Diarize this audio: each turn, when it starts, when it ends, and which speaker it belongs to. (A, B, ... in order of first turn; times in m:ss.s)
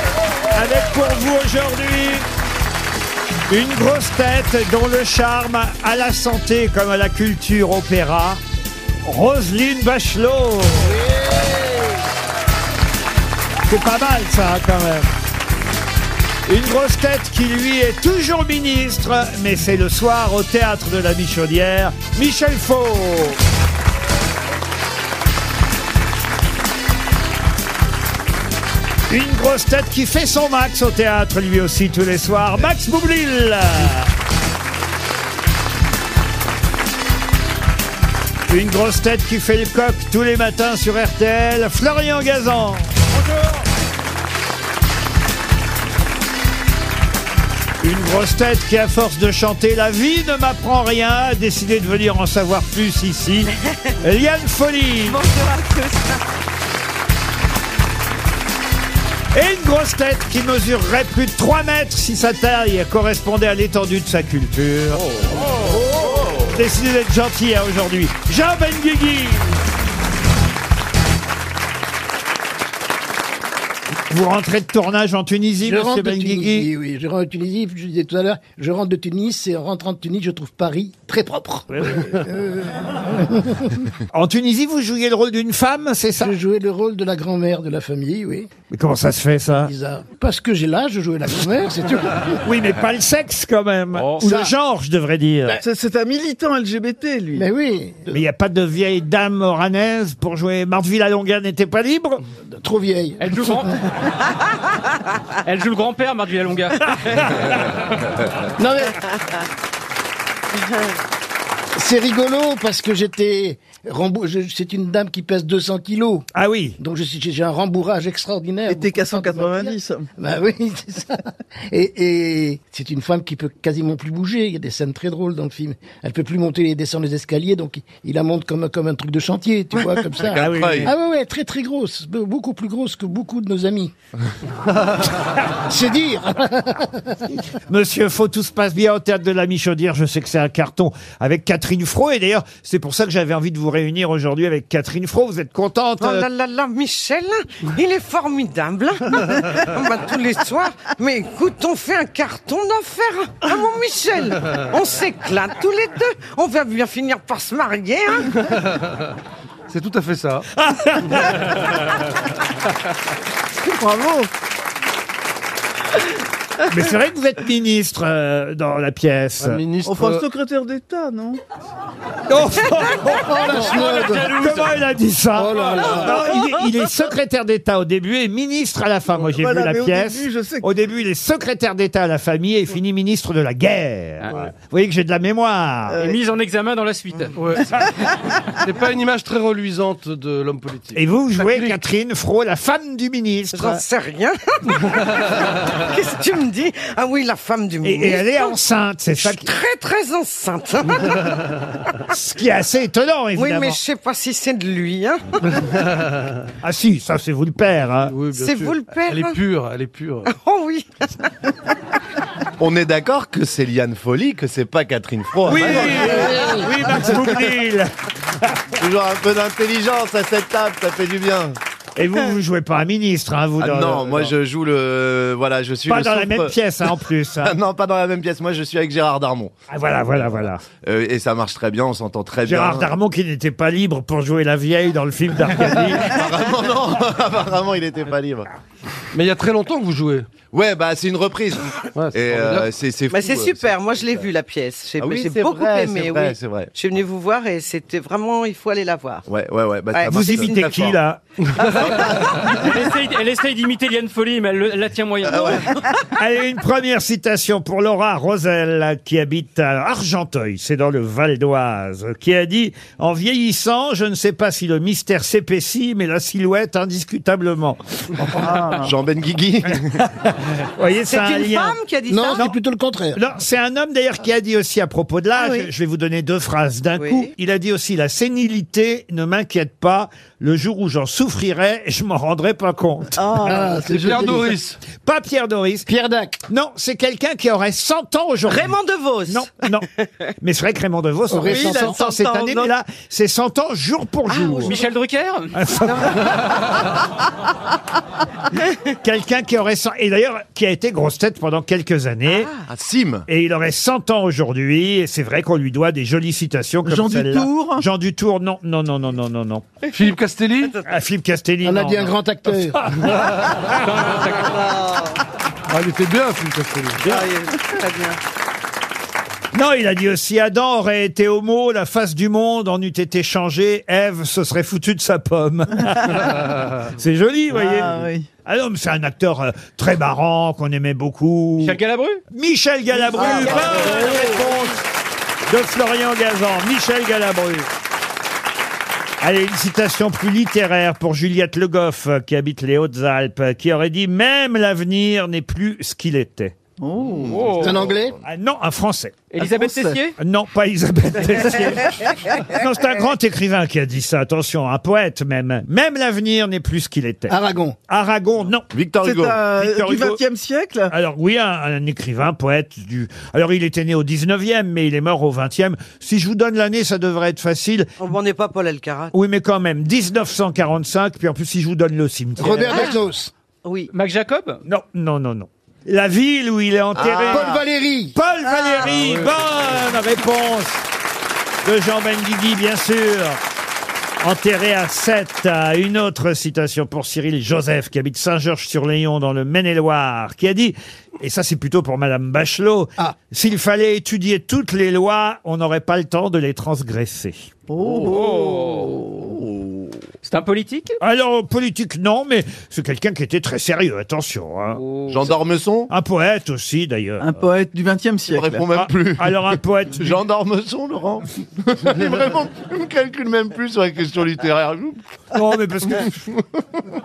0:00.5-0:02.3 A
0:03.5-0:08.4 A
0:09.0-0:11.0 A
0:10.8-0:12.0 B
0:13.7-0:15.1 A
0:16.5-0:23.4 A
0:29.1-0:34.1 A
0:38.5-0:43.6 A
0:47.8-0:53.5 A
0:54.0-0:55.2 A
0:55.1-0:56.2 C
0:59.3-1:05.0 A
1:06.4-1:09.6 A
1:14.1-1:16.7 A
1:15.6-1:23.8 B
1:21.7-1:22.2 A
1:24.1-1:26.3 A
1:26.2-1:28.5 B
1:28.7-1:29.7 A
1:29.6-1:32.4 B
1:32.4-1:35.6 A
1:33.9-1:34.3 D
1:34.2-1:34.5 B
1:35.6-1:37.5 E
1:37.4-1:38.2 B
1:38.1-1:42.2 A
1:42.5-1:43.8 B
1:43.2-1:43.8 D
1:45.4-1:47.3 D
1:48.6-1:49.0 B
1:51.8-1:56.3 B
1:56.4-1:56.8 A
1:56.8-2:13.9 B
1:58.7-2:00.1 E
2:10.2-2:10.9 A
2:10.4-2:10.9 F
2:15.7-2:17.4 B
2:17.7-2:26.3 A
2:26.0-2:38.3 C
2:39.7-2:40.5 G
2:40.6-2:41.5 A
2:43.6-2:44.3 E
2:46.7-2:49.6 A
2:49.4-2:50.3 G
2:49.8-2:51.4 E
2:52.3-3:06.1 A
2:53.3-2:54.3 B
2:53.5-2:54.9 D
2:55.4-2:56.4 D
2:56.0-2:56.5 E
2:59.1-3:00.7 E
3:04.2-3:04.5 D
3:06.0-3:07.4 D
3:07.4-3:07.7 G
3:08.6-3:11.8 G
3:10.9-3:13.8 A
3:13.5-3:18.6 C
3:17.8-3:19.5 A
3:19.2-3:21.4 C
3:22.1-3:23.8 A
3:23.4-3:25.4 C
3:26.6-3:28.2 A
3:28.0-3:30.3 G
3:28.3-3:29.4 C
3:30.2-3:31.1 C
3:32.6-3:36.5 F
3:35.4-3:37.9 A
3:38.8-3:41.6 F
3:42.0-3:44.3 A
3:43.6-3:46.6 F
3:45.9-3:47.5 A
3:47.4-3:49.5 F
3:49.7-3:50.6 A
3:50.3-3:52.9 F
3:52.5-3:56.2 A
3:56.0-3:58.5 F
3:59.1-4:00.3 G
4:00.5-4:04.3 F
4:02.0-4:02.7 G
4:03.1-4:09.2 C
4:05.0-4:06.7 F
4:09.3-4:11.0 F
4:09.9-4:10.7 C
4:10.1-4:11.2 A
4:11.6-4:12.5 C
4:12.0-4:15.7 D
4:15.3-4:15.6 F
4:16.2-4:28.6 A
4:28.4-4:28.9 E
4:28.8-4:30.0 F
4:29.7-4:31.8 A
4:31.1-4:32.5 C
4:32.1-4:33.2 B
4:33.2-4:43.3 A
4:35.4-4:35.7 C
4:37.0-4:37.3 C
4:43.2-4:44.4 E
4:43.4-4:44.5 B
4:43.9-4:44.8 G
4:44.9-4:45.9 A
4:45.9-4:46.4 B
4:46.5-4:48.8 A
4:48.5-4:50.1 C
4:49.3-4:49.8 A
4:50.4-4:54.8 A
4:51.3-4:52.0 B
4:51.5-4:52.7 C
4:54.3-4:54.8 C
4:54.6-4:55.6 D
4:55.6-4:56.4 A
4:55.9-4:56.3 C
4:59.0-5:02.6 A
5:02.3-5:02.6 C
5:02.7-5:03.3 F
5:03.3-5:09.8 A
5:06.8-5:07.8 E
5:09.9-5:10.8 G
5:10.8-5:12.1 A
5:11.6-5:12.8 B
5:13.7-5:14.6 D
5:14.4-5:15.1 C
5:15.7-5:17.2 G
5:17.0-5:18.2 C
5:19.5-5:31.8 A
5:27.5-5:28.3 E
5:31.6-5:32.2 D
5:32.3-5:34.8 A
5:33.1-5:34.4 E
5:35.5-5:37.7 A
5:39.2-5:46.6 A
5:46.8-5:47.4 E
5:47.2-5:47.9 D
5:47.6-5:48.2 B
5:48.2-5:49.3 A
5:49.3-5:50.2 D
5:49.4-5:50.0 E
5:50.2-5:57.4 A
5:57.3-5:57.8 B
5:57.9-5:58.7 A
5:58.7-5:59.5 F
5:59.0-6:00.9 E
5:59.6-6:00.2 A
6:00.9-6:07.9 A
6:08.0-6:09.1 C
6:09.1-6:12.9 A
6:12.4-6:13.3 B
6:13.6-6:13.9 C
6:13.9-6:14.6 D
6:14.7-6:17.6 A
6:17.0-6:17.5 F
6:17.2-6:18.2 B
6:18.2-6:20.8 A
6:18.4-6:19.1 C
6:21.6-6:23.4 A
6:24.2-6:37.5 A
6:37.7-6:39.3 E
6:37.9-6:38.9 D
6:40.2-6:41.0 D
6:41.0-6:44.8 A
6:44.8-6:45.4 D
6:45.1-6:45.9 F
6:45.9-6:47.4 A
6:47.2-6:48.6 E
6:48.3-6:55.0 F
6:48.8-6:50.2 A
6:55.3-6:56.2 A